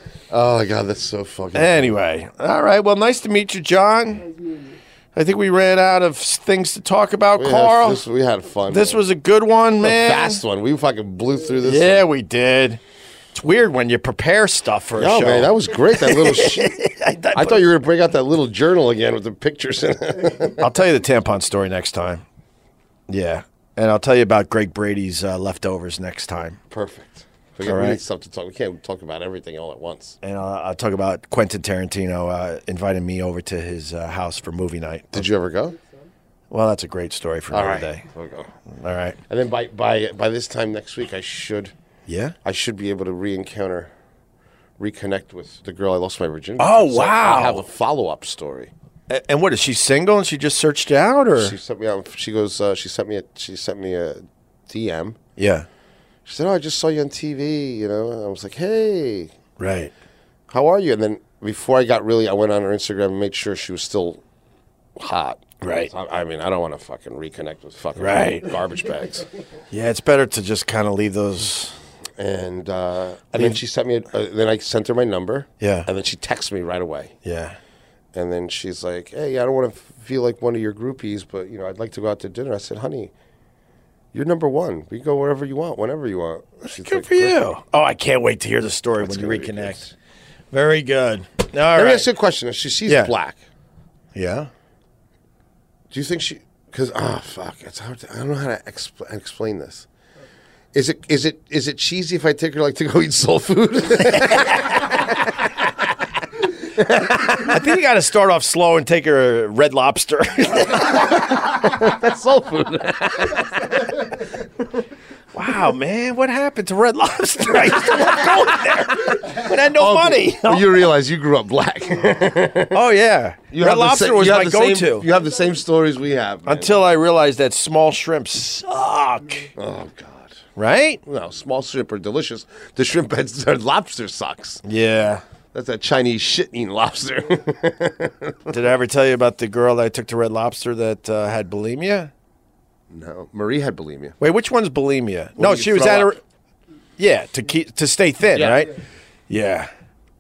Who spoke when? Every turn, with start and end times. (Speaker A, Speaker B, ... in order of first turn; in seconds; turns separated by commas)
Speaker A: 0.3-1.9, Speaker B: 1.5-4.3, Speaker B: 5.2-8.0, Speaker A: 7.4-9.0, Speaker B: 8.7-10.4, Speaker A: 9.8-12.1, Speaker B: 11.6-12.8, Speaker B: 13.3-17.6, Speaker A: 15.0-16.7, Speaker A: 17.4-20.6, Speaker B: 20.6-22.2, Speaker B: 23.1-26.6, Speaker A: 26.7-30.2, Speaker B: 27.6-28.0, Speaker B: 30.2-35.3, Speaker A: 35.1-35.8, Speaker B: 36.5-38.0, Speaker A: 37.5-38.5, Speaker B: 38.7-39.2, Speaker A: 39.3-41.7, Speaker B: 42.1-42.4, Speaker A: 42.4-43.9, Speaker A: 44.8-48.7, Speaker B: 46.6-47.6, Speaker B: 49.1-51.6, Speaker A: 51.4-55.2, Speaker B: 55.4-55.7, Speaker A: 56.3-59.3, Speaker B: 59.6-59.9, Speaker A: 60.5-64.2, Speaker A: 65.0-69.3, Speaker B: 65.6-65.9, Speaker B: 68.0-68.5, Speaker B: 69.7-71.7, Speaker A: 72.2-77.1, Speaker B: 73.3-73.6, Speaker B: 75.6-75.9, Speaker B: 77.2-77.6, Speaker A: 78.1-83.1, Speaker A: 84.1-87.4, Speaker B: 86.7-89.9, Speaker A: 89.0-89.9, Speaker B: 90.5-92.1, Speaker A: 91.7-93.4, Speaker B: 92.9-93.1, Speaker B: 94.2-94.5, Speaker A: 95.9-99.9, Speaker A: 100.7-105.7, Speaker A: 106.7-107.6, Speaker B: 107.3-111.2, Speaker A: 111.1-113.7, Speaker B: 115.3-120.8, Speaker A: 119.7-122.8, Speaker B: 122.7-125.1, Speaker A: 123.5-126.8, Speaker B: 126.5-129.5, Speaker A: 129.6-130.4, Speaker B: 130.6-131.0, Speaker A: 131.1-134.6, Speaker B: 134.6-135.2, Speaker A: 135.5-138.6, Speaker B: 138.5-142.1, Speaker A: 142.9-144.2, Speaker B: 144.2-146.2, Speaker A: 145.4-146.2, Speaker B: 147.0-148.7, Speaker A: 148.3-148.7, Speaker B: 149.3-149.7